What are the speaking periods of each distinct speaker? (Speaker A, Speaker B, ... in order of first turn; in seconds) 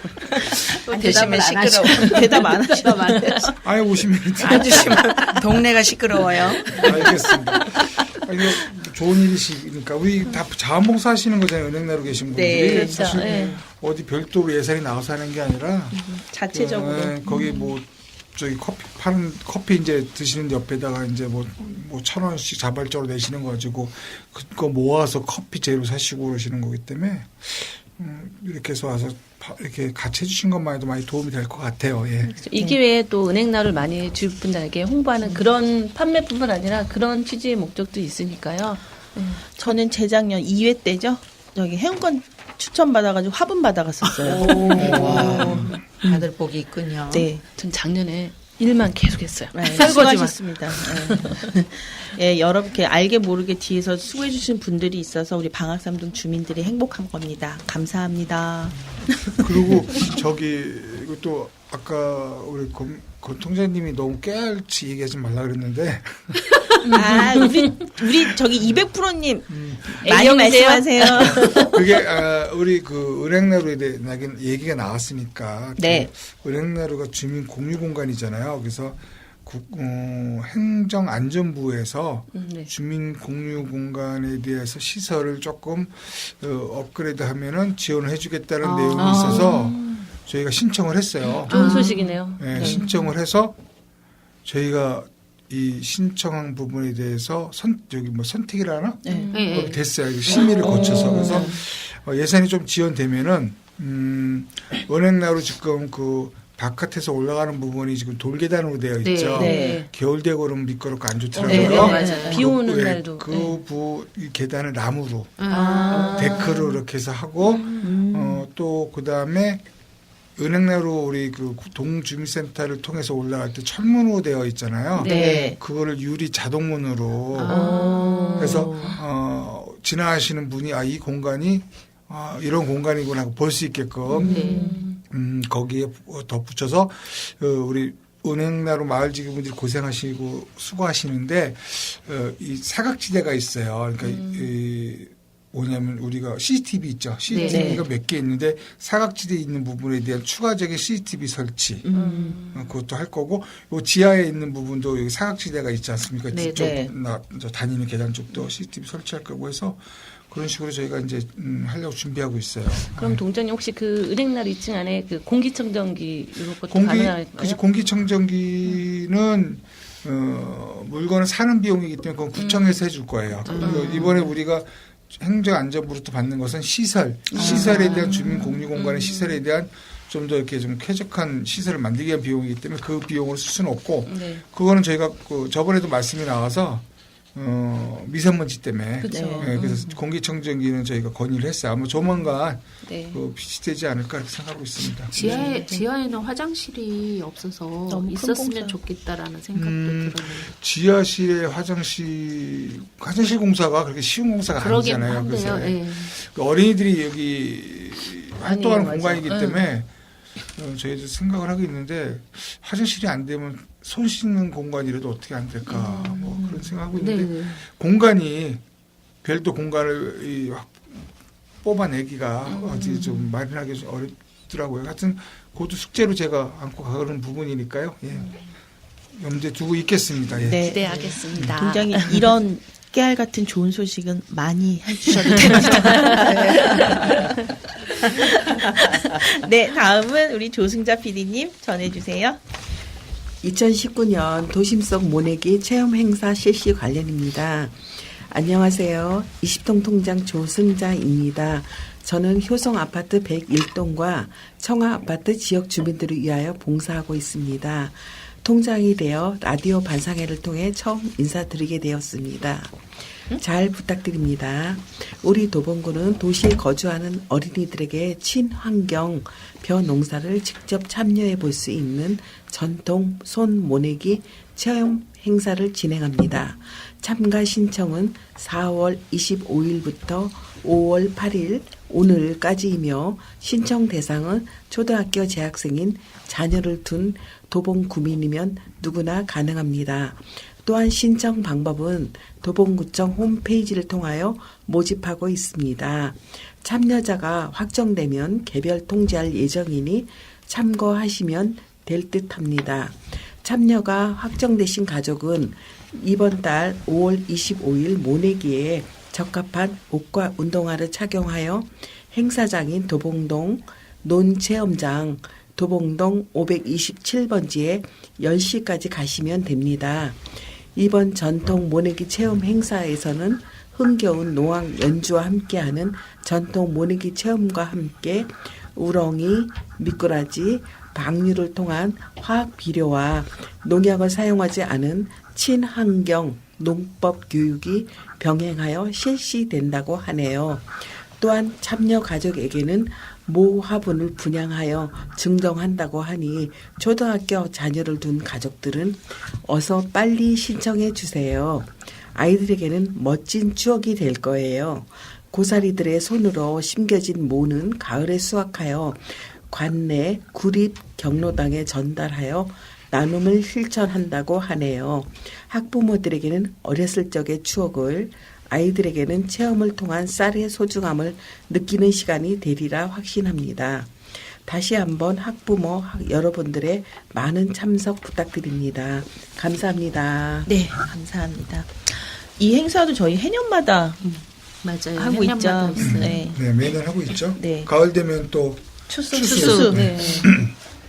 Speaker A: 0.3-2.5, 4.4-8.2, 44.3-47.3
Speaker B: 0.9-3.5, 70.3-70.8, 91.5-92.2, 99.3-101.5, 109.0-109.6, 111.5-112.4, 115.4-116.4, 127.3-128.9, 134.2-134.6, 147.3-147.8, 156.3-156.8, 195.1-200.5, 204.6-206.1, 217.0-217.6, 384.0-386.3
Speaker C: 1.8-3.5, 12.3-13.3, 15.9-17.3, 39.5-46.3, 47.1-47.4, 49.5-60.0, 66.9-71.8, 75.8-76.1, 88.6-89.7, 92.5-92.9, 99.0-99.3, 100.3-101.6, 109.3-109.8, 111.4-112.5, 115.5-116.8, 117.8-118.5, 125.0-125.6, 127.5-129.0, 134.1-134.8, 147.5-147.9, 151.8-152.4, 156.6-156.9, 177.3-178.0, 189.1-189.7, 195.2-195.8, 197.9-198.8, 230.4-237.3, 238.8-242.4, 380.5-384.0, 384.9-386.4, 387.4-387.7, 389.1-389.8
Speaker D: 3.6-5.2, 6.7-32.5, 59.3-66.4, 68.0-68.8, 69.5-70.3, 71.2-93.5, 94.5-119.6, 120.4-127.6, 128.4-151.8, 152.5-163.2, 166.6-186.8, 187.3-195.1, 199.5-209.9, 210.5-218.6, 219.2-221.1, 221.6-228.4, 229.2-230.7, 231.3-231.6, 385.8-390.5
Speaker E: 12.7-13.6, 17.3-17.7, 32.2-39.8, 44.4-45.3, 47.5-51.5, 66.8-67.7, 70.1-71.3, 82.3-82.7, 88.9-90.0, 91.5-92.9, 99.1-99.7, 100.9-101.4, 109.4-109.9, 111.3-113.6, 116.1-116.4, 125.0-125.3, 127.5-128.8, 134.1-135.0, 144.0-144.5, 151.9-152.7, 162.8-167.6, 172.4-172.8, 173.6-174.2, 177.3-179.4, 184.1-184.4, 189.0-190.0, 192.8-193.2, 208.4-209.7, 215.7-216.6, 222.5-223.3, 230.6-232.0, 388.9-390.5
Speaker F: 243.4-380.6